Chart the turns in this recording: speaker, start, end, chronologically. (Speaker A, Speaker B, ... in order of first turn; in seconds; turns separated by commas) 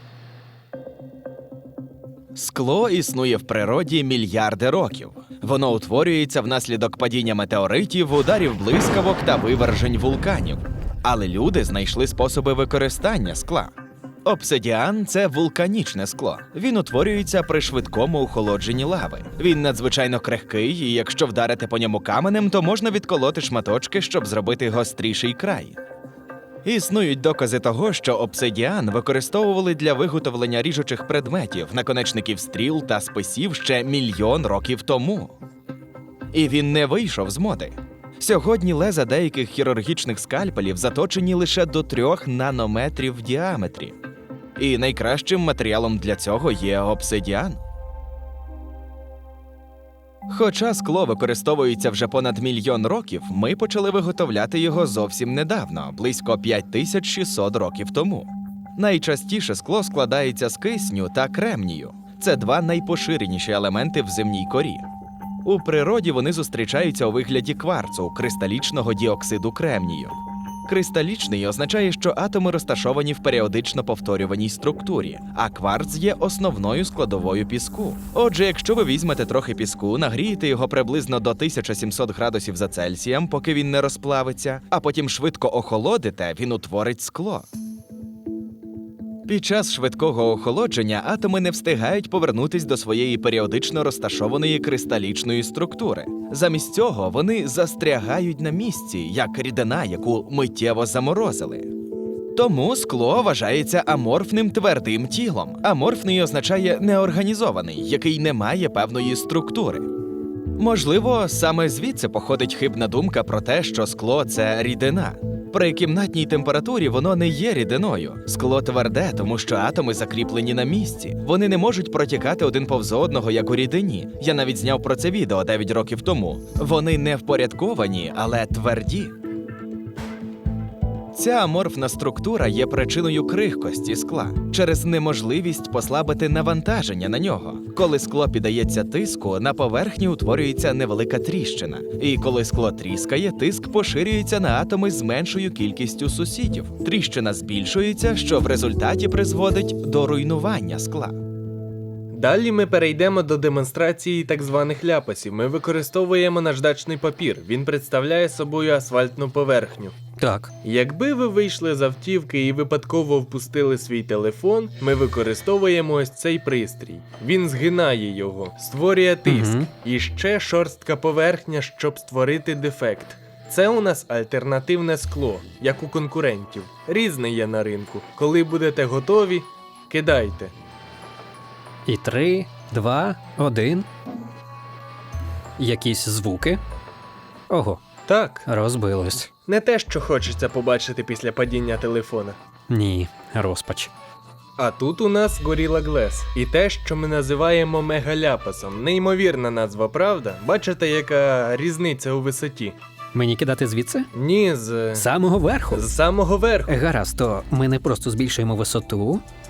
Speaker A: 2.3-13.7, Speaker A: 14.2-25.8, Speaker A: 26.6-35.4, Speaker A: 36.3-44.0, Speaker A: 44.6-47.6, Speaker A: 50.3-64.9, Speaker A: 65.4-87.5, Speaker A: 89.3-101.7, Speaker A: 102.3-109.9, Speaker A: 110.5-129.2, Speaker A: 131.1-151.2, Speaker B: 152.1-160.0, Speaker C: 160.2-160.5, Speaker B: 160.6-180.5, Speaker C: 169.3-169.7, Speaker C: 181.8-183.9, Speaker C: 185.6-186.6, Speaker C: 187.5-187.8, Speaker B: 188.1-188.5, Speaker C: 188.5-189.3, Speaker B: 189.5-192.4, Speaker C: 192.7-193.9, Speaker B: 194.6-202.8, Speaker C: 203.1-204.1, Speaker B: 204.1-205.1, Speaker C: 204.9-205.8, Speaker B: 205.7-206.7, Speaker C: 206.7-209.2